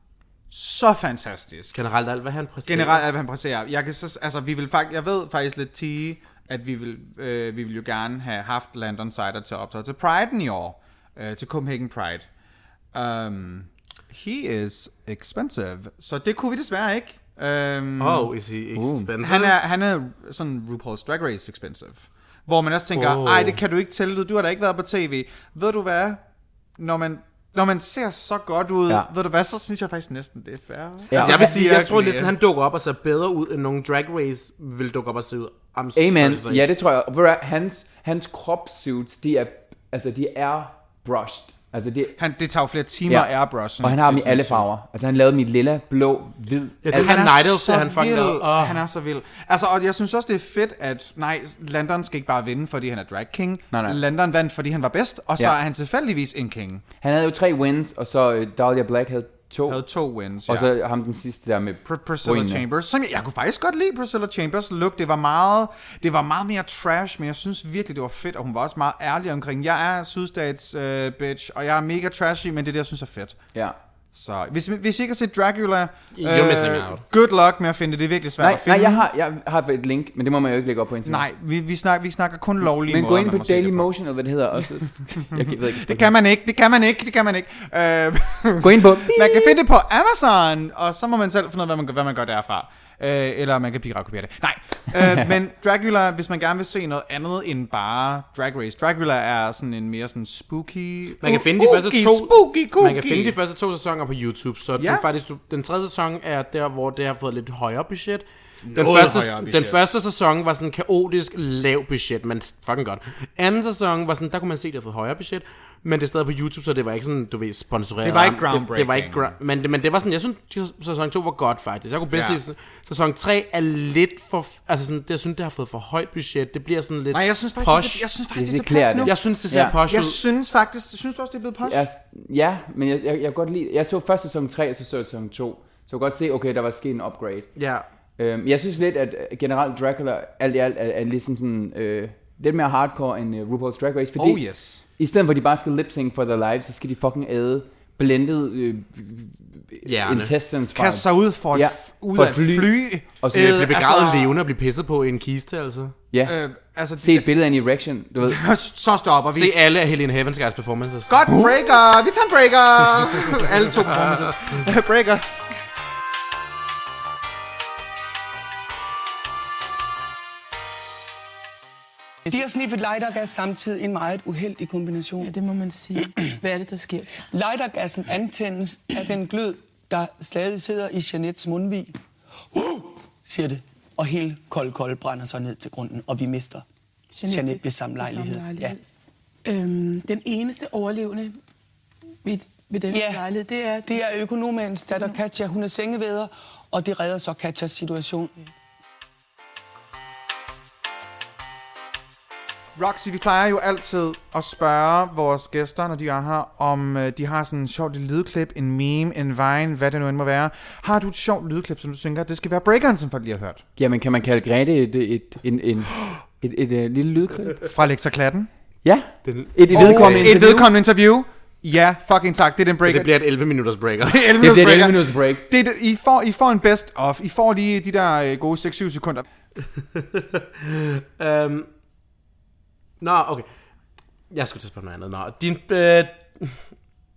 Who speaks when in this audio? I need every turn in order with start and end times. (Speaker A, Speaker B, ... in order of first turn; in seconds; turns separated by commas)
Speaker A: 0.5-1.7, Speaker B: 1.7-3.0, Speaker A: 2.6-12.2, Speaker A: 12.9-18.3, Speaker B: 18.0-19.6, Speaker C: 18.7-19.1, Speaker A: 19.2-26.2, Speaker B: 22.9-23.6, Speaker A: 26.8-32.3, Speaker C: 31.1-31.4, Speaker B: 31.1-36.7, Speaker C: 35.9-42.2, Speaker A: 42.2-44.7, Speaker C: 43.1-47.1, Speaker B: 46.8-48.8, Speaker A: 46.9-56.8, Speaker C: 53.7-54.0, Speaker C: 57.0-59.8, Speaker A: 59.7-60.7, Speaker C: 60.5-62.6, Speaker A: 61.8-73.4, Speaker A: 74.1-79.0, Speaker B: 76.2-77.0, Speaker C: 78.4-81.2, Speaker A: 81.0-83.9, Speaker C: 82.6-86.1, Speaker A: 85.8-103.3, Speaker C: 88.6-89.6, Speaker C: 94.9-95.3, Speaker B: 101.2-128.1, Speaker A: 104.8-105.0, Speaker A: 108.6-109.9, Speaker A: 118.0-119.3, Speaker A: 122.1-122.4, Speaker A: 127.1-129.2, Speaker C: 128.3-129.8, Speaker B: 129.0-130.2, Speaker A: 129.8-131.8, Speaker C: 131.6-137.5, Speaker B: 137.6-137.8, Speaker C: 138.2-144.4, Speaker A: 144.2-144.8, Speaker C: 145.0-153.6, Speaker B: 149.8-150.3, Speaker A: 150.7-154.3, Speaker B: 153.3-155.9, Speaker A: 156.2-157.3, Speaker C: 157.0-158.4, Speaker A: 158.2-159.5, Speaker B: 159.3-161.2, Speaker A: 161.1-165.3, Speaker D: 172.3-175.3, Speaker E: 175.2-177.2, Speaker D: 177.3-181.9, Speaker D: 182.5-186.6, Speaker E: 187.1-188.8, Speaker D: 187.3-188.8, Speaker E: 189.4-191.4, Speaker E: 192.2-194.0, Speaker D: 192.9-193.2, Speaker D: 193.8-198.3, Speaker A: 202.8-213.6, Speaker C: 213.8-217.7, Speaker A: 217.6-218.5, Speaker C: 218.8-220.7, Speaker B: 219.2-220.4, Speaker A: 219.7-223.1, Speaker B: 222.8-224.4, Speaker A: 224.0-229.2, Speaker C: 224.4-225.4, Speaker B: 229.6-231.7, Speaker B: 233.0-233.5, Speaker B: 234.3-236.6